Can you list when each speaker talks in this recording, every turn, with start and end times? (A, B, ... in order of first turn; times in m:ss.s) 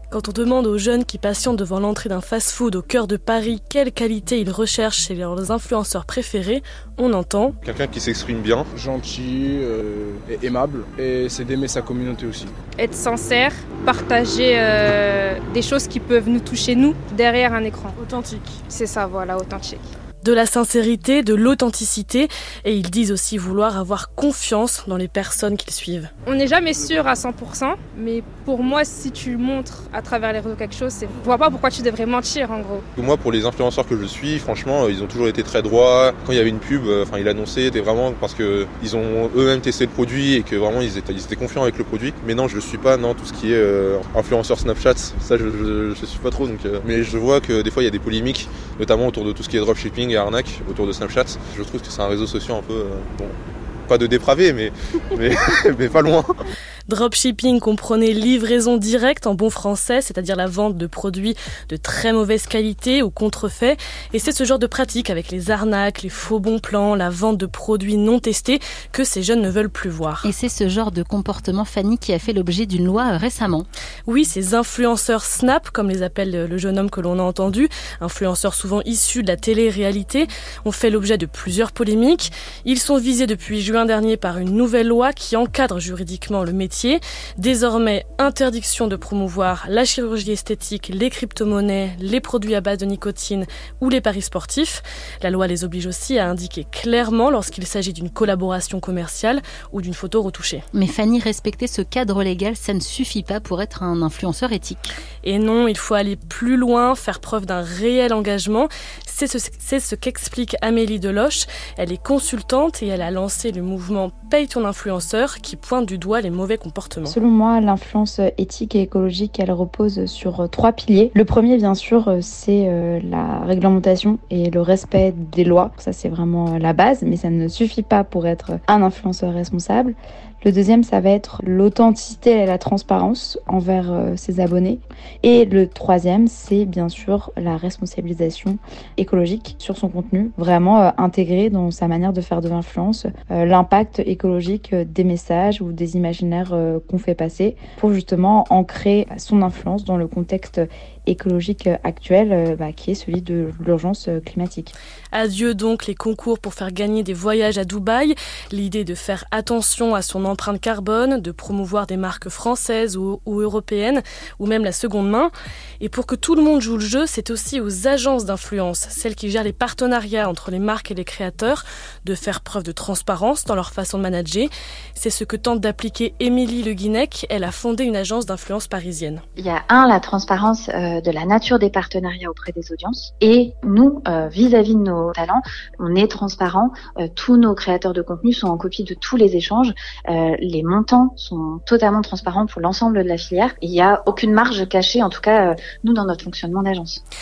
0:00.1-0:07.6 A
0:07.6-0:08.7 B
0:08.7-0:12.5 C
0:12.8-0:18.0 D
0:18.0-0:18.6 A
0:18.7-0:19.8 D
0:20.2-0:26.1 A
0:26.3-0:32.8 D
0:33.0-0:53.4 B
0:53.9-0:56.3 B
0:56.9-1:10.3 A
1:10.2-1:13.7 E
1:14.1-1:40.6 A
1:40.7-1:44.9 E
1:45.2-1:57.2 A
1:57.0-2:34.7 F
2:35.1-2:59.2 A
2:59.4-3:17.0 G